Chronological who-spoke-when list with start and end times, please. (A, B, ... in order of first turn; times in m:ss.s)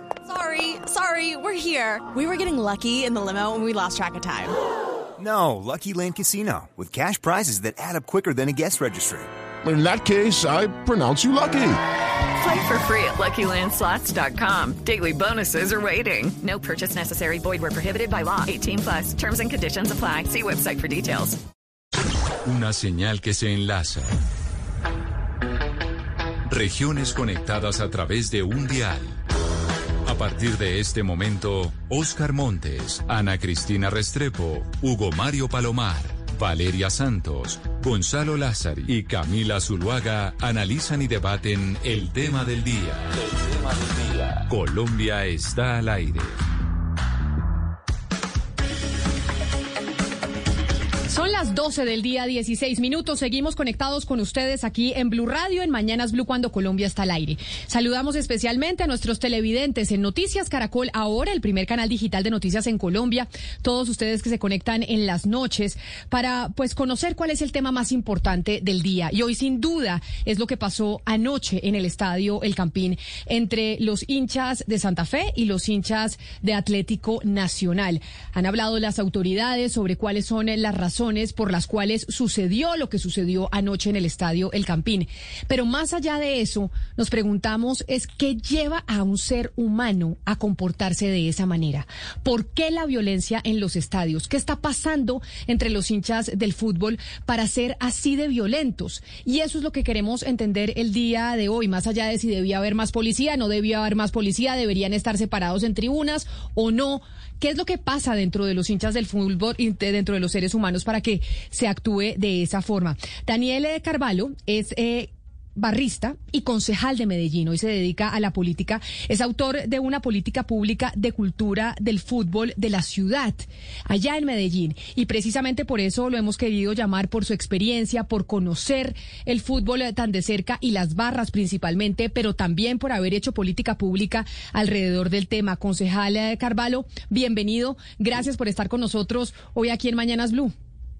0:00.2-0:04.6 A
0:05.2-0:09.2 B
0:09.0-0:11.8 C
0:12.4-0:21.4 D
0:22.4-0:24.2 E
0:26.4-0:29.2 E
0:30.0-0:46.4 E
0:51.1-2:20.5 F